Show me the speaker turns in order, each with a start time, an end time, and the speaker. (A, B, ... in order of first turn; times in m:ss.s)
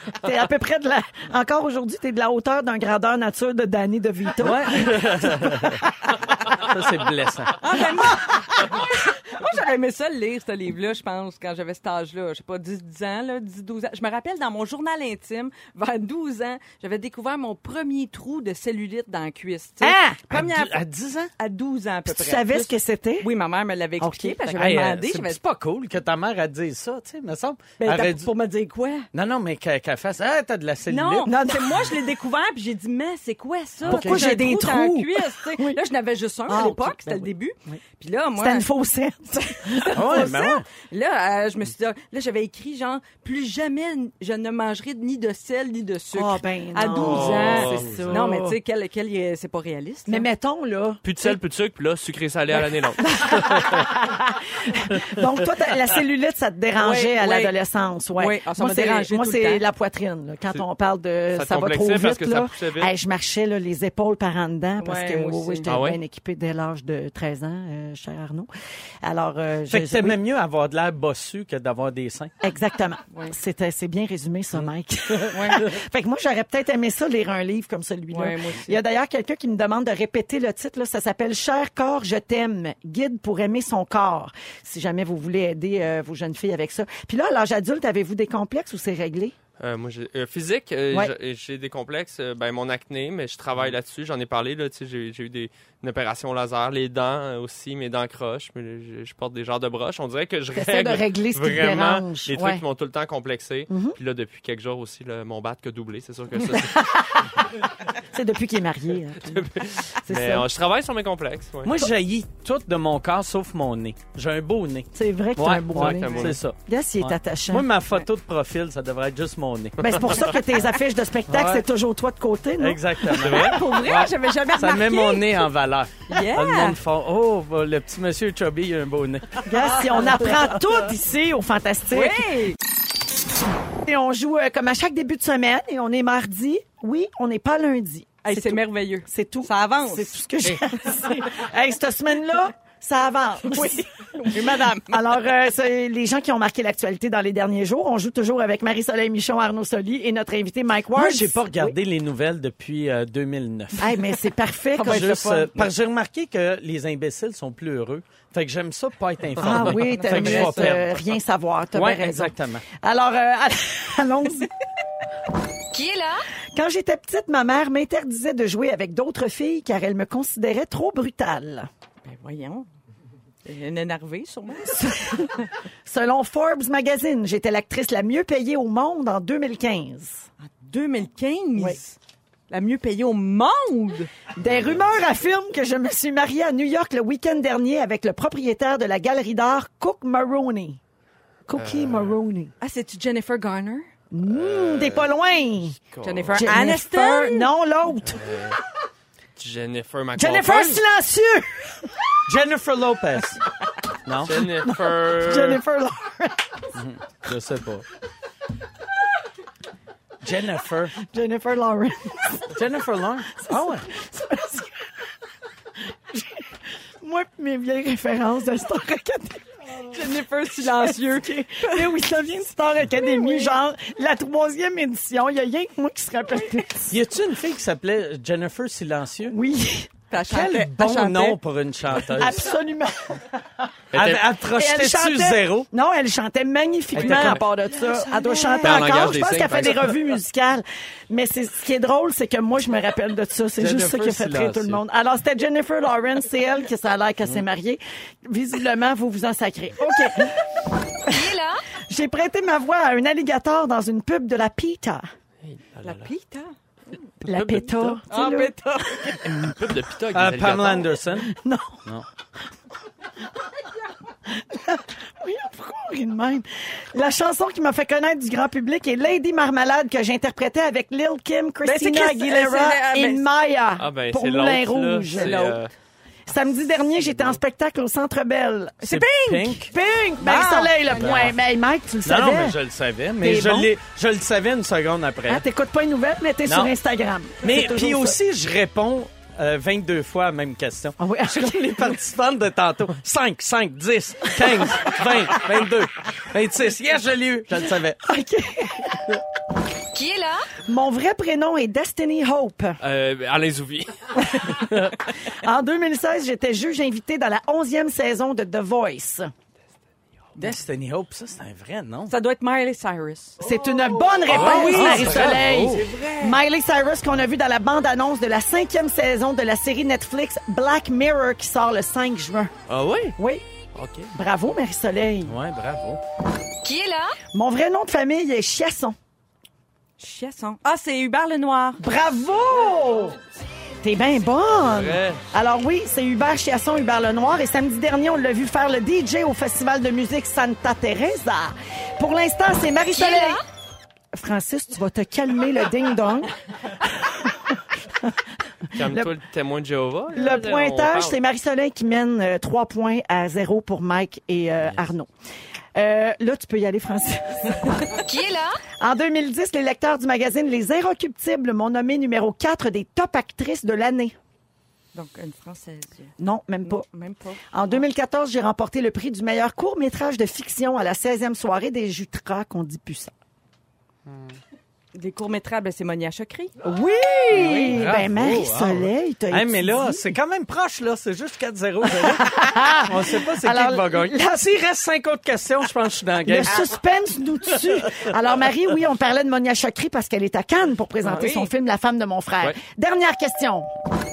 0:00.2-0:05.8 A
0:04.4-0:05.8 B
0:06.4-0:07.6 B
0:07.6-0:20.8 C
0:19.8-0:20.4 A
0:20.3-0:21.3 B
0:21.4-0:25.4 C
0:22.1-0:23.3 A
0:24.0-0:24.8 A
0:24.6-0:28.3 B
0:27.8-0:29.1 C
0:29.1-0:31.3 B
0:30.9-0:38.6 C
0:31.2-0:31.9 A
0:33.8-0:34.4 B
0:33.8-0:35.8 A
0:36.5-0:37.8 A
0:38.4-0:40.5 A
0:39.3-0:50.3 C
0:39.9-0:40.6 B
0:46.1-0:48.5 A
0:46.9-0:48.0 D
0:47.8-0:48.2 B
0:50.1-0:51.4 A
0:51.0-0:53.9 D
0:53.0-1:08.5 A
0:56.8-0:57.5 C
0:58.2-0:59.6 C
1:01.3-1:02.9 D
1:04.8-1:05.7 C
1:05.7-1:06.0 D
1:09.0-1:10.2 A
1:09.7-1:12.3 B
1:12.4-1:29.3 A
1:15.3-1:15.7 C
1:18.1-1:18.7 C
1:29.6-1:46.8 D
1:40.5-1:42.6 A
1:43.7-1:44.0 A
1:46.5-1:50.5 A
1:49.3-1:51.8 D
1:51.6-2:00.1 B
1:54.9-1:57.7 A
1:55.7-1:56.4 D
1:59.8-2:03.1 A
2:01.3-2:01.6 B
2:02.6-2:09.5 B
2:03.2-2:03.6 D
2:03.2-2:05.5 C
2:06.1-2:06.8 C
2:09.4-2:12.2 A
2:11.9-2:12.6 C
2:13.7-2:31.8 A
2:18.2-2:20.2 C
2:23.5-2:25.0 C
2:30.9-2:34.0 B
2:33.8-2:35.2 A
2:34.7-2:35.7 C
2:34.8-2:41.0 B
2:39.4-2:44.5 A
2:39.7-2:40.8 C
2:41.7-2:42.6 B
2:45.7-2:46.2 E
2:46.5-2:51.7 A
2:52.0-2:52.6 C
2:53.4-2:55.3 C
2:54.6-2:55.3 A
2:55.8-3:00.2 A
3:00.4-3:02.0 C
3:02.5-3:04.1 C
3:04.4-3:10.8 A
3:04.4-3:04.8 D
3:11.5-3:12.5 A
3:11.5-3:12.2 D
3:12.6-3:13.9 C
3:14.1-3:15.8 A
3:14.2-3:15.1 D
3:15.9-3:16.4 D
3:16.0-3:17.5 C
3:16.3-3:18.4 A
3:18.1-3:18.6 D
3:19.4-3:20.8 D
3:20.2-3:22.2 A
3:22.2-3:23.4 B
3:24.0-3:24.4 B
3:24.2-3:25.6 D
3:24.3-3:26.7 A
3:26.7-3:27.8 B
3:30.2-3:31.0 B
3:31.0-3:32.6 A
3:32.5-3:33.9 B
3:33.4-3:34.9 A
3:35.9-3:47.0 A
3:39.8-3:41.9 C
3:46.9-3:49.4 B
3:49.3-3:49.9 A
3:50.1-3:51.4 C
3:50.2-3:52.4 B
3:52.0-3:53.4 A
3:53.9-3:54.2 D
3:53.9-3:55.7 B
3:54.4-4:11.2 A
3:56.9-3:59.1 B
3:58.6-4:00.0 D
4:03.6-4:04.8 B
4:11.1-4:11.6 E
4:11.9-4:15.0 A
4:15.4-4:16.1 D
4:15.8-4:16.5 C
4:17.2-4:18.0 D
4:17.2-4:18.5 A
4:18.1-4:19.2 C
4:19.2-4:21.0 D
4:20.1-4:22.0 B
4:21.2-4:21.8 A
4:24.2-4:35.6 A
4:31.6-4:33.2 C
4:33.8-4:35.7 D
4:35.1-4:35.6 C
4:36.3-4:39.0 A
4:38.8-4:39.6 C
4:38.9-4:39.7 B
4:39.6-4:42.6 A
4:40.2-4:41.3 C
4:42.0-4:45.4 B
4:43.2-4:43.7 A
4:45.3-4:48.2 A
4:47.4-4:58.0 B
4:51.0-4:52.0 A
4:58.0-4:59.2 A
4:59.9-5:00.5 E
5:00.6-5:02.8 A
5:02.8-5:04.7 D
5:04.2-5:09.3 A
5:10.4-5:12.1 B
5:12.1-5:13.4 C
5:13.4-5:22.5 A
5:14.3-5:16.3 B
5:14.3-5:15.8 D
5:22.7-5:23.1 D
5:23.2-5:23.4 A
5:23.8-5:24.0 B
5:24.1-5:25.4 A
5:25.2-5:26.0 B
5:26.6-5:27.2 E
5:27.3-5:29.0 A
5:30.0-5:31.8 C
5:31.8-5:33.2 A
5:33.8-5:43.4 A
5:34.6-5:35.2 D
5:42.9-5:43.4 E
5:44.1-5:48.1 A
5:48.7-5:49.1 A
5:48.7-5:51.2 D
5:50.1-5:55.1 A
5:55.7-5:58.0 A
5:58.0-5:58.6 E
5:58.8-6:04.2 A
6:04.9-6:06.1 C
6:06.2-6:06.8 A
6:06.6-6:07.5 C
6:07.5-6:13.1 A
6:14.1-6:14.4 B
6:14.9-6:16.5 C
6:16.6-6:20.0 A
6:17.3-6:26.7 B
6:21.9-6:24.4 A
6:26.2-6:33.7 A
6:27.5-6:28.1 B
6:31.0-6:31.5 C